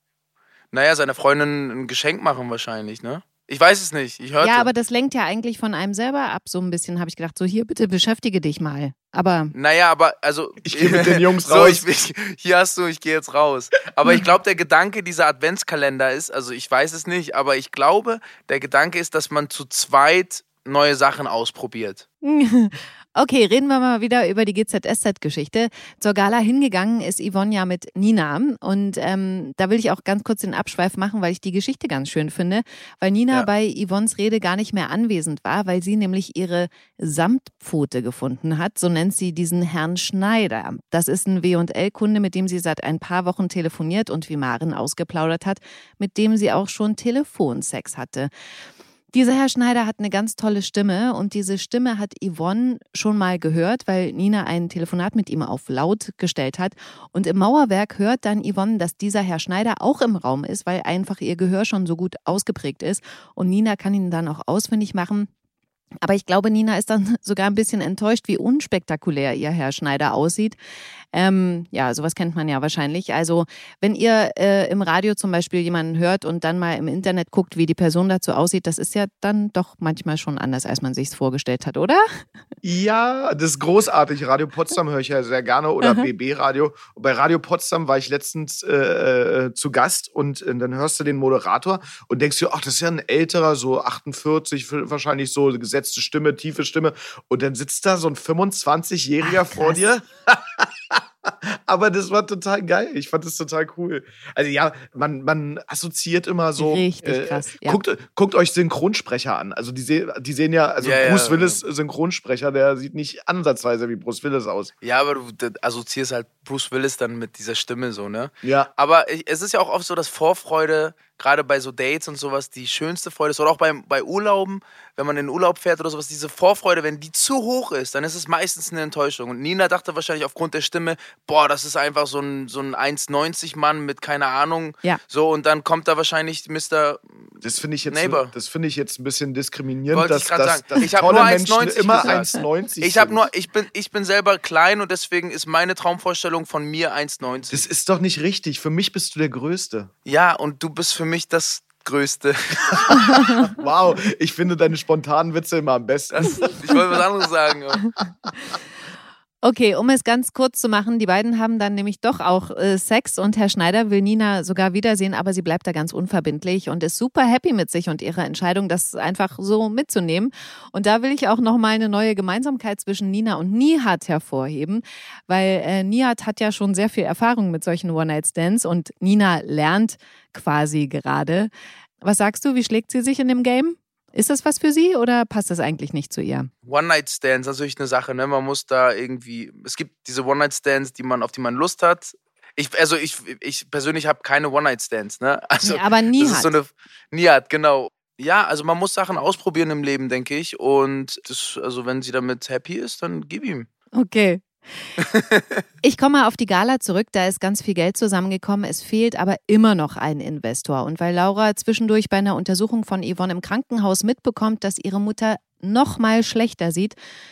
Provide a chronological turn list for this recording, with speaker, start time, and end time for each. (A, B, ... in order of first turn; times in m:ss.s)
0:00.7-0:04.7 A
0:04.4-0:09.5 B
0:09.5-0:22.0 A
0:10.6-0:11.8 C
0:22.2-0:48.3 B
0:49.1-1:05.3 B
1:06.0-1:10.6 B
1:11.1-1:22.0 B
1:22.6-1:54.7 C
1:25.8-1:26.1 B
1:39.2-1:39.8 B
1:46.6-1:47.8 B
1:50.8-1:51.6 A
1:54.8-2:17.3 A
1:58.4-1:58.7 C
2:17.4-2:23.3 C
2:17.8-2:18.3 A
2:19.9-2:22.3 A
2:22.8-2:27.6 A
2:27.5-2:29.9 C
2:30.0-2:33.1 A
2:33.0-2:33.3 B
2:33.4-2:36.5 C
2:36.1-2:37.8 A
2:39.4-3:01.5 B
3:02.0-3:06.5 B
3:06.6-3:23.7 A
3:15.6-3:16.5 B
3:24.0-3:24.9 B
3:25.0-3:25.6 A
3:25.8-3:37.0 B